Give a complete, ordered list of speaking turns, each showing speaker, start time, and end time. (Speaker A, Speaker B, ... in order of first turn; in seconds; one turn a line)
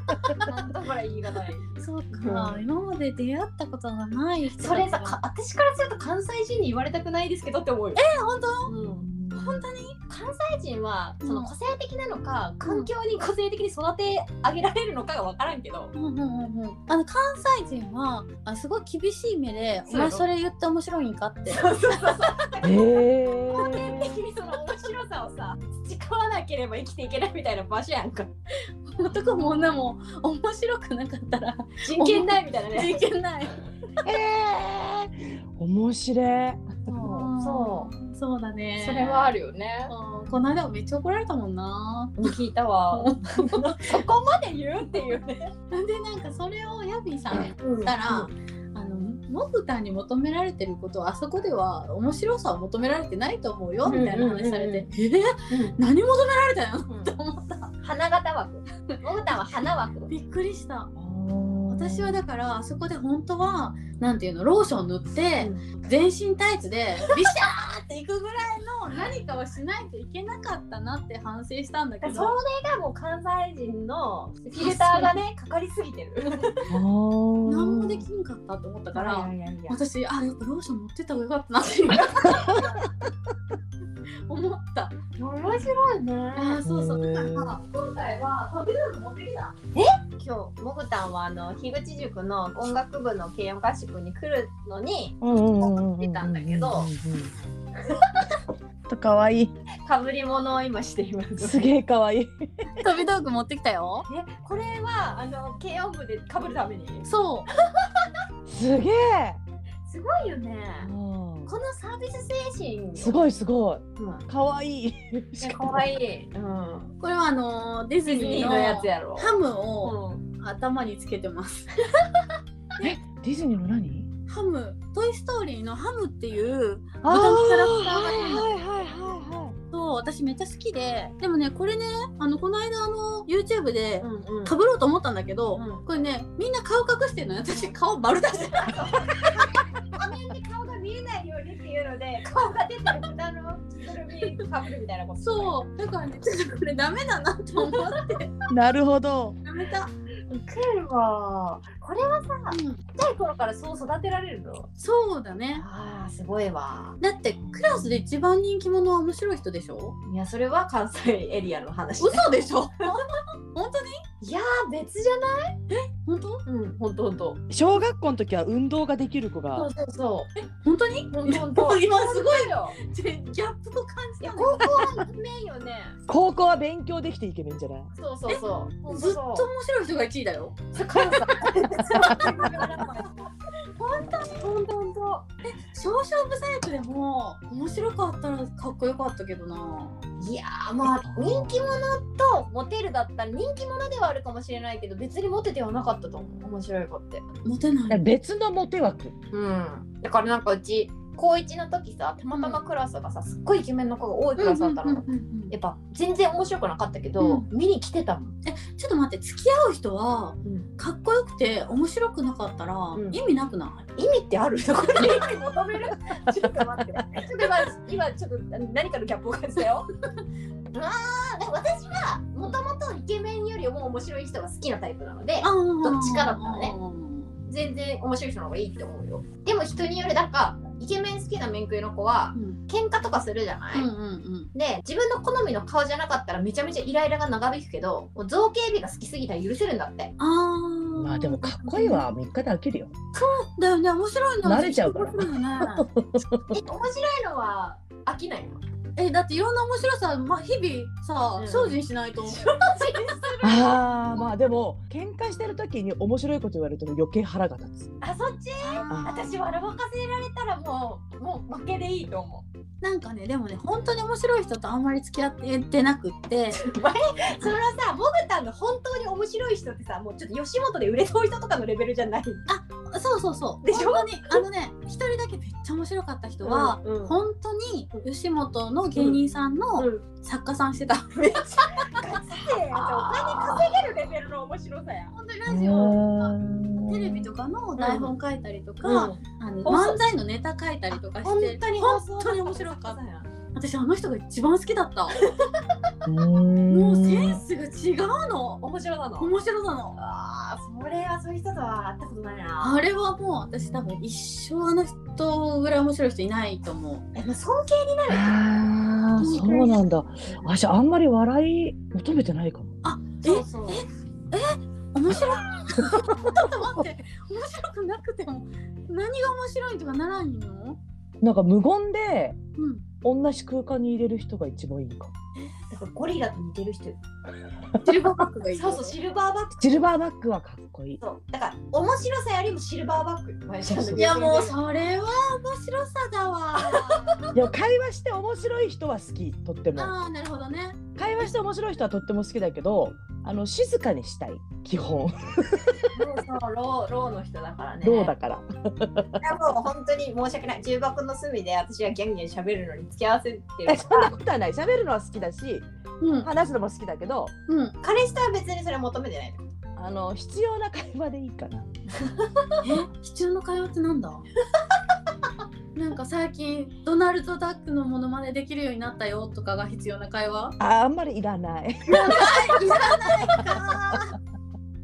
Speaker A: 0.4-2.6
Speaker B: 1.8-5.2
Speaker A: 4.6-8.0
Speaker B: 7.9-8.8
Speaker A: 8.7-15.9
Speaker C: 8.8-9.7
Speaker B: 9.3-9.9
Speaker B: 11.2-11.5
Speaker B: 15.9-21.9
Speaker A: 19.9-20.3
Speaker A: 21.5-22.9
Speaker C: 22.6-24.1
Speaker A: 23.5-28.3
Speaker B: 28.9-33.5
Speaker A: 29.0-29.4
Speaker A: 31.8-33.0
Speaker C: 34.0-36.8
Speaker B: 36.9-39.3
Speaker A: 37.0-37.9
Speaker A: 38.8-39.9
Speaker B: 39.9-42.3
Speaker A: 42.2-45.5
Speaker B: 42.9-43.7
Speaker B: 45.7-57.7
Speaker A: 47.6-48.3
Speaker A: 53.8-54.9
Speaker A: 55.5-55.8
Speaker A: 56.9-57.1
Speaker A: 57.8-60.1
Speaker B: 60.1-60.9
Speaker C: 61.0-62.2
Speaker B: 61.7-72.3
Speaker A: 72.0-76.7
Speaker B: 74.6-75.2
Speaker C: 76.7-78.1
Speaker B: 77.5-82.6
Speaker A: 78.9-79.8
Speaker A: 82.3-82.7
Speaker B: 84.3-85.0
Speaker A: 85.2-86.6
Speaker B: 86.3-89.5
Speaker C: 86.6-87.6
Speaker A: 89.7-95.2
Speaker C: 95.2-97.3
Speaker A: 95.7-96.9
Speaker C: 98.9-99.5
Speaker A: 99.8-101.6
Speaker C: 101.4-102.3
Speaker B: 102.8-104.0
Speaker A: 104.1-107.0
Speaker B: 107.0-107.5
Speaker C: 108.5-109.4
Speaker A: 109.9-110.9
Speaker C: 110.8-111.5
Speaker A: 111.5-113.2
Speaker C: 113.0-115.9
Speaker A: 114.0-114.2
Speaker A: 115.4-116.9
Speaker B: 117.0-121.9
Speaker A: 118.0-120.2
Speaker C: 122.8-124.1
Speaker B: 124.3-128.5
Speaker C: 127.0-129.6
Speaker B: 129.7-139.2
Speaker A: 134.0-134.5
Speaker A: 135.5-135.8
Speaker A: 138.6-145.6
Speaker B: 145.2-148.4
Speaker C: 148.5-149.4
Speaker B: 149.4-149.9
Speaker A: 150.3-154.7
Speaker B: 152.5-152.8
Speaker B: 154.8-155.6
Speaker A: 155.5-157.0
Speaker B: 157.0-159.9
Speaker A: 160.0-163.0
Speaker B: 162.0-163.9
Speaker A: 164.2-165.6
Speaker B: 165.7-166.4
Speaker A: 166.4-167.4
Speaker C: 167.5-169.7
Speaker B: 169.5-175.0
Speaker A: 169.9-170.3
Speaker A: 171.1-172.8
Speaker A: 174.2-175.9
Speaker C: 176.1-177.9
Speaker A: 178.0-179.5
Speaker B: 178.3-182.9
Speaker A: 180.7-183.1
Speaker C: 181.9-182.3
Speaker A: 183.8-185.2
Speaker B: 185.4-190.0
Speaker A: 190.2-197.2
Speaker C: 191.1-191.7
Speaker B: 197.4-198.0
Speaker C: 197.9-199.1
Speaker A: 199.3-208.3
Speaker B: 202.3-202.6
Speaker B: 204.4-205.5
Speaker B: 207.2-207.4
Speaker B: 208.4-213.8
Speaker A: 212.9-213.2
Speaker A: 214.0-219.9
Speaker A: 220.7-226.7
Speaker B: 225.4-227.3
Speaker A: 227.5-233.9
Speaker B: 233.7-234.5
Speaker A: 234.5-240.1
Speaker B: 240.2-242.0
Speaker C: 241.0-242.9
Speaker B: 243.1-245.8
Speaker C: 244.4-246.6
Speaker A: 246.5-248.6
Speaker B: 248.9-253.2
Speaker A: 251.4-253.8
Speaker C: 253.4-257.9
Speaker A: 258.0-262.4
Speaker B: 258.6-259.5
Speaker C: 258.9-259.3
Speaker B: 262.8-266.6
Speaker A: 266.6-272.4
Speaker B: 272.5-281.3
Speaker A: 273.6-274.4
Speaker A: 276.4-277.2
Speaker A: 279.8-280.0
Speaker A: 281.1-285.1
Speaker C: 282.8-283.7
Speaker B: 285.1-293.0
Speaker C: 285.5-287.3
Speaker A: 287.8-288.1
Speaker A: 288.8-290.0
Speaker A: 291.1-293.3
Speaker B: 293.5-295.2
Speaker C: 296.0-297.4
Speaker B: 296.7-298.6
Speaker A: 298.6-299.3
Speaker B: 299.2-299.9
Speaker A: 299.9-302.8
Speaker B: 302.6-307.0
Speaker A: 307.1-308.3
Speaker C: 308.1-312.7
Speaker B: 309.2-309.9
Speaker A: 310.2-310.5
Speaker B: 312.8-320.8
Speaker A: 313.2-313.8
Speaker C: 321.2-322.4
Speaker B: 322.6-322.8
Speaker C: 323.0-325.1
Speaker A: 325.7-327.0
Speaker B: 327.8-328.9
Speaker A: 328.5-329.7
Speaker C: 329.6-331.0
Speaker A: 331.0-334.6
Speaker C: 333.6-334.1
Speaker B: 333.9-337.0
Speaker A: 336.6-337.1
Speaker C: 337.3-339.9
Speaker B: 339.7-340.8
Speaker C: 340.9-345.9
Speaker A: 345.9-348.1
Speaker C: 347.8-349.2
Speaker A: 349.2-354.1
Speaker C: 353.6-355.7
Speaker B: 356.0-356.3
Speaker C: 356.2-357.3
Speaker B: 357.5-357.8
Speaker A: 357.8-359.5
Speaker C: 359.8-361.7
Speaker B: 362.6-364.2
Speaker B: 365.7-370.5
Speaker C: 370.6-374.0
Speaker B: 371.9-374.1
Speaker A: 372.1-373.0